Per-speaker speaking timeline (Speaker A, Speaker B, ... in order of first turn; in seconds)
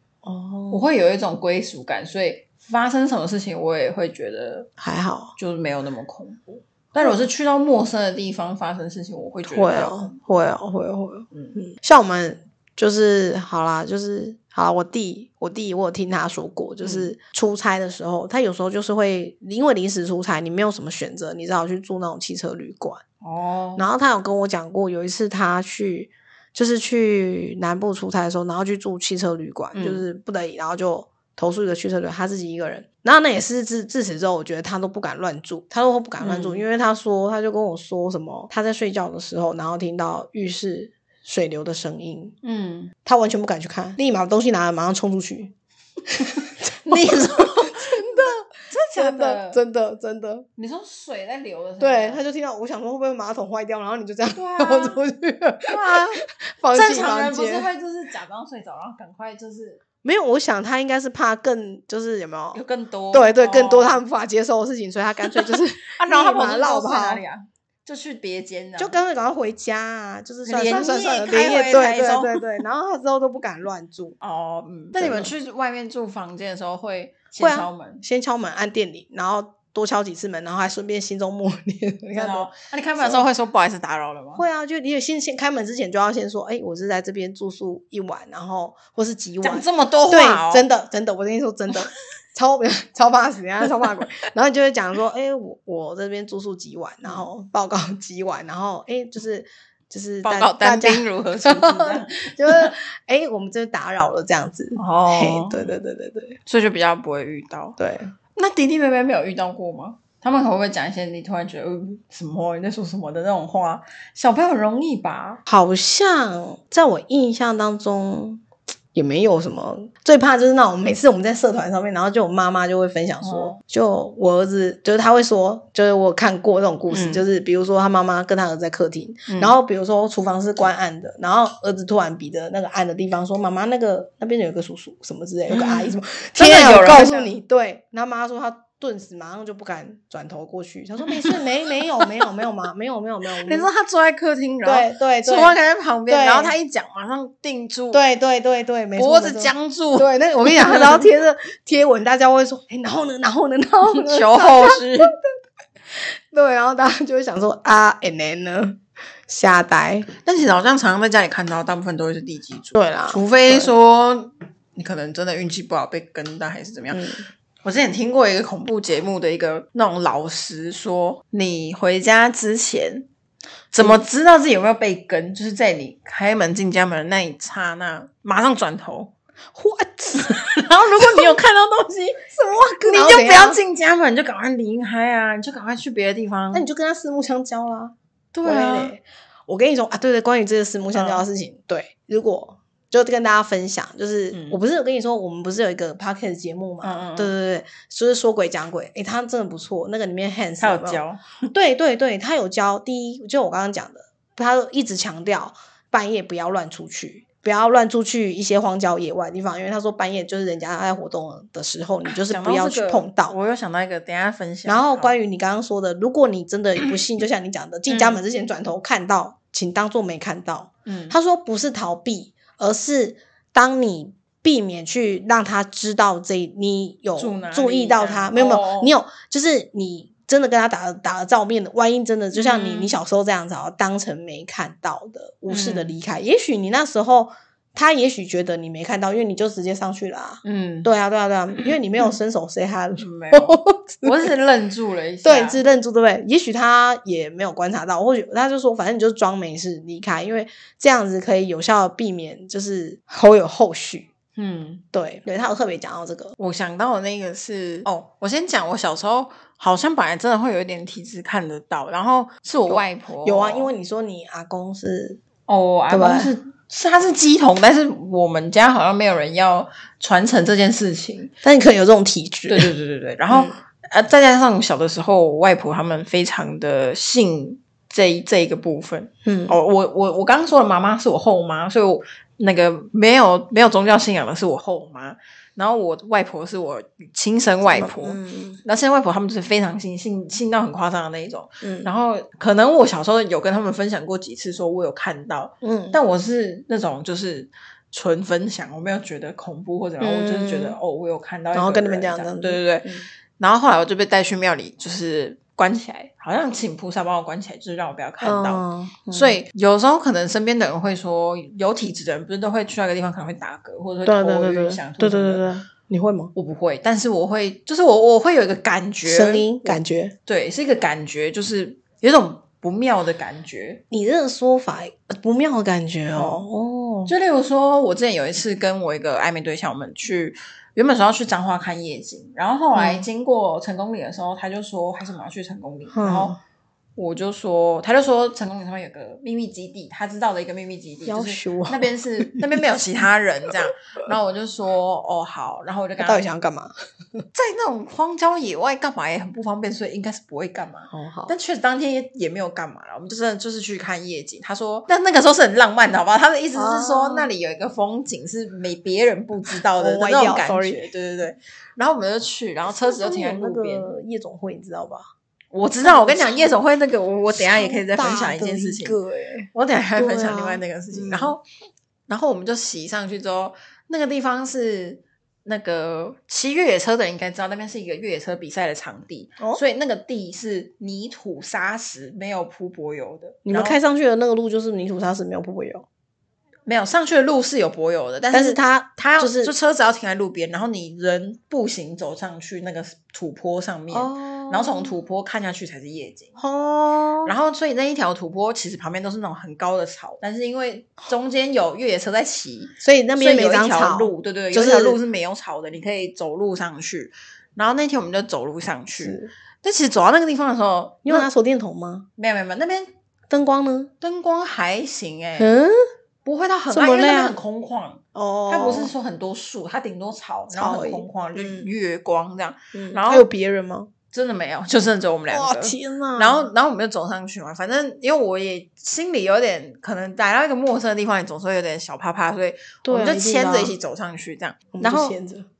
Speaker A: 0.2-0.8, 4.8-5.3, 9.4-23.0, 23.8-42.4, 43.0-45.5, 46.1-48.4, 48.9-50.5, 51.8-57.7, 60.0-62.6, 63.1-67.2, 68.8-74.2, 75.0-75.3, 77.4-83.2, 84.3-106.4, 107.8-108.1, 115.5-118.4, 118.9-143.7, 144.6-145.6, 146.1-146.5, 147.9-155.1, 155.9-160.1, 162.8-163.7, 166.9-167.3, 179.5-181.4, 182.3-183.6, 186.5-213.4, 214.7-244.2, 245.2-254.1, 254.9-256.4, 262.7-265.2, 265.9-266.3, 271.4-272.7, 273.3-273.6, 279.2-279.6, 287.6-288.6, 291.6-291.9, 295.6-296.0, 300.0-300.8, 301.5-303.1, 308.2-309.4, 314.0-316.3, 319.0-320.1, 323.9-327.1, 332.7-333.1, 335.9-336.4, 341.1-342.4, 346.0-347.2, 350.9-351.3, 356.5-357.3, 359.8-360.8, 362.6-365.1, 365.8-366.6, 367.3-371.4, 383.4-385.9, 388.3-389.5, 393.9-394.9, 396.4-397.3, 402.8-405.0, 409.0-409.3, 411.1-412.1, 413.3-413.9, 415.4-415.7, 416.7-417.4, 418.1-418.9, 420.5-421.7, 422.7-423.9, 425.3-426.5, 432.8-433.8, 434.7-435.5
Speaker B: 0.7-4.7, 5.4-10.2, 16.8-17.1, 23.2-23.8, 29.7-30.0, 36.2-36.6, 42.4-42.9, 46.9-49.6, 50.6-52.2, 54.3-55.0, 55.7-59.8, 62.5-64.0, 65.2-69.0, 70.5-72.4, 74.2-78.0, 82.1-84.4, 89.4-90.7, 100.2-102.7, 104.8-105.7, 106.5-107.8, 108.3-115.4, 123.2-123.6, 126.9-127.2, 129.3-129.6, 135.5-137.3, 142.0-142.3, 143.4-148.1, 148.9-151.1, 153.8-155.1, 160.2-167.0, 167.6-173.1, 173.7-179.1, 180.1-186.7, 188.3-188.9, 190.9-191.2, 194.3-194.6, 196.8-197.3, 200.6-201.3, 212.1-215.1, 217.9-218.2, 220.8-221.2, 227.2-228.9, 232.3-232.9, 235.5-235.9, 240.4-240.9, 243.0-245.6, 254.3-254.8, 256.4-263.7, 265.5-271.3, 272.5-315.5, 316.3-323.8, 326.1-326.4, 327.1-336.4, 336.9-346.2, 347.3-363.9, 365.5-369.0, 369.5-371.4, 372.1-383.8, 386.6-396.4, 397.2-411.3, 412.2-412.9, 414.0-415.5, 416.2-423.3, 424.1-435.2